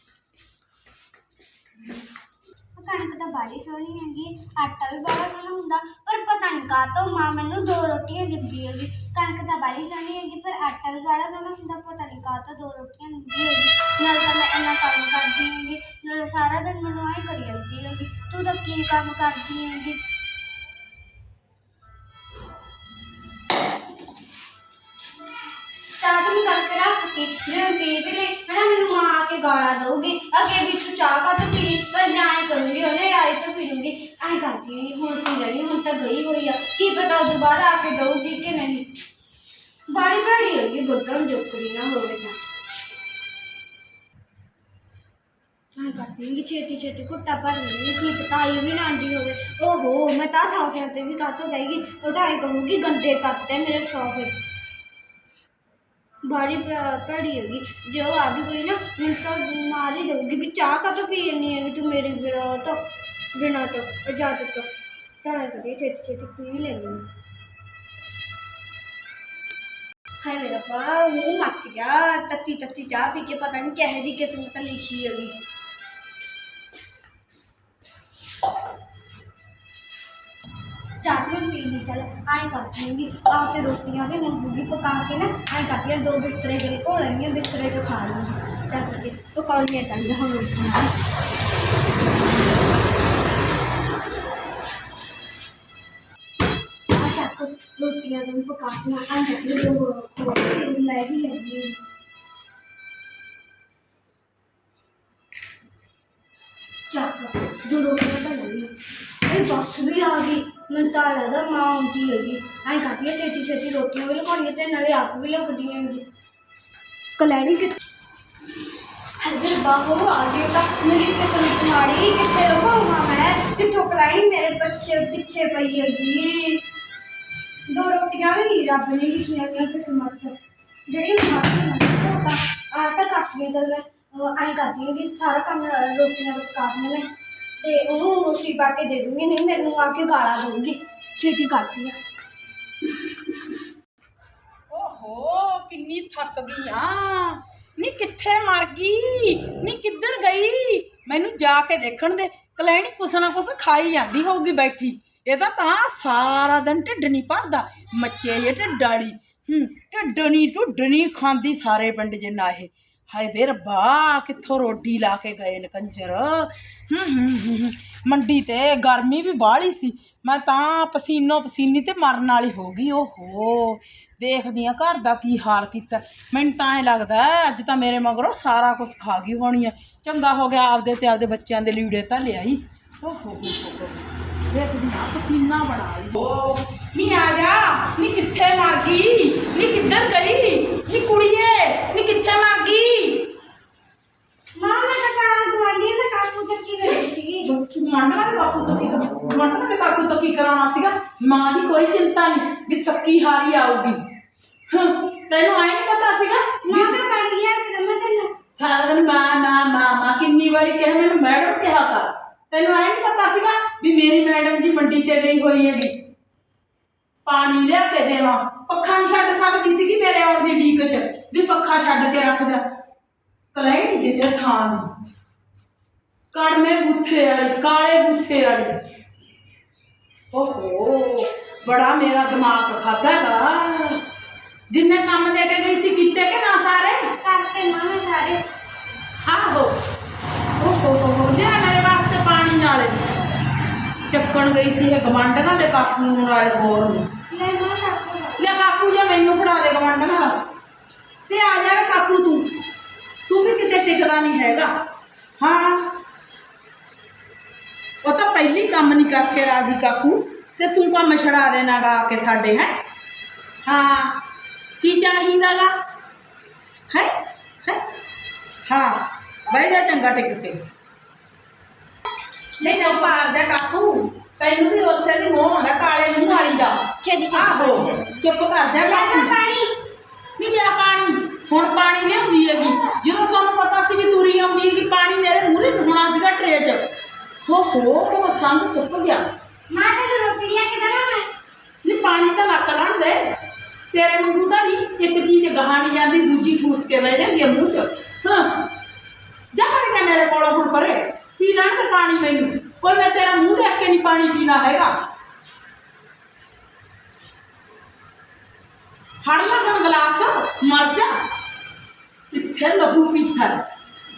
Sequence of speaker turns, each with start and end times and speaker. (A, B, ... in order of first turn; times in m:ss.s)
0:02.7-0:20.0 A
0:26.0-0:38.9 A
0:39.9-0:42.3 A
0:45.7-0:54.4 A
0:56.2-1:02.8 A
1:03.3-1:04.7 A
1:05.2-1:07.0 A
1:10.2-1:15.3 A
1:21.0-1:30.9 A
1:36.9-1:41.8 A
1:46.9-1:48.7 A
1:49.2-1:56.0 A
1:57.2-1:57.8 A
1:59.2-2:06.6 A
2:07.7-2:17.1 A
2:17.6-2:22.0 A
2:24.7-3:13.3 B
3:14.6-3:17.4 A
3:17.4-3:24.0 B
3:24.7-3:27.0 B
3:26.6-3:28.3 A
3:28.6-3:36.0 B
3:37.2-3:42.6 B
3:43.5-3:44.9 B
3:46.3-3:48.8 B
3:50.3-3:54.0 B
3:54.7-3:57.1 B
3:57.2-3:58.4 A
3:59.2-3:59.8 B
4:00.6-4:03.0 B
4:04.1-4:07.1 B
4:07.3-4:08.5 A
4:08.4-4:10.4 B
4:11.3-4:12.5 B
4:13.3-4:14.7 B
4:15.4-4:15.9 B
4:18.0-4:22.7 B
4:23.6-4:24.2 B
4:24.8-4:25.7 B
4:28.7-4:30.6 B
4:32.6-4:33.3 A
4:32.6-4:39.3 B
4:37.0-4:38.2 A
4:38.8-4:39.7 A
4:40.4-4:46.9 B
4:47.4-4:49.2 B
4:49.7-4:51.3 A
4:51.8-4:53.2 B
4:53.9-4:58.7 B
4:59.5-5:04.9 B
5:09.2-5:11.1 B
5:12.3-5:13.6 B